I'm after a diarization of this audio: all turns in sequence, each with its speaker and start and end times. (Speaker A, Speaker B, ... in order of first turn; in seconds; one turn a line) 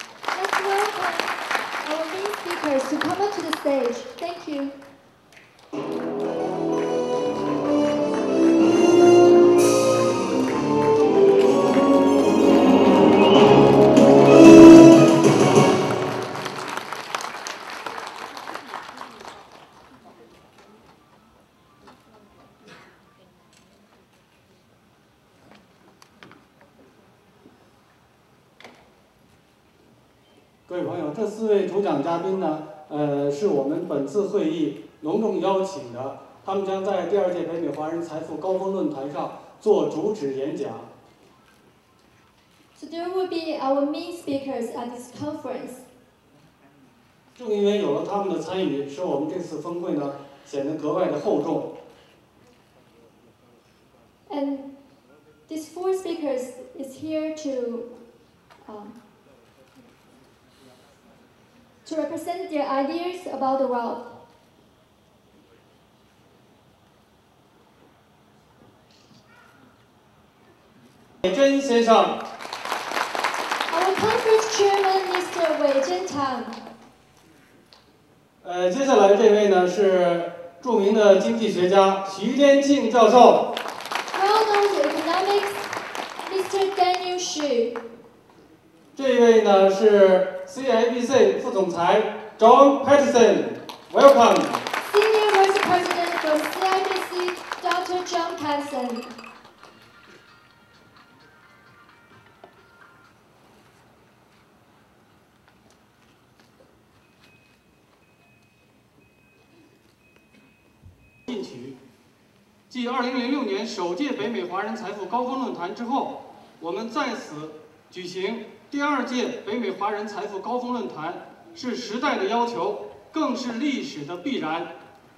Speaker A: 0.3-4.8
Speaker B: 30.7-40.9
Speaker A: 42.8-45.8
Speaker B: 47.4-51.7
Speaker A: 54.3-54.7
Speaker A: 55.5-57.9
Speaker A: 58.6-59.0
Speaker A: 61.8-64.2
Speaker B: 71.2-72.2
Speaker A: 73.7-76.6
Speaker B: 78.4-83.5
Speaker A: 84.1-85.8
Speaker A: 86.3-87.8
Speaker B: 89.0-94.6
Speaker A: 94.9-99.1
Speaker B: 111.3-111.8
Speaker B: 112.7-124.7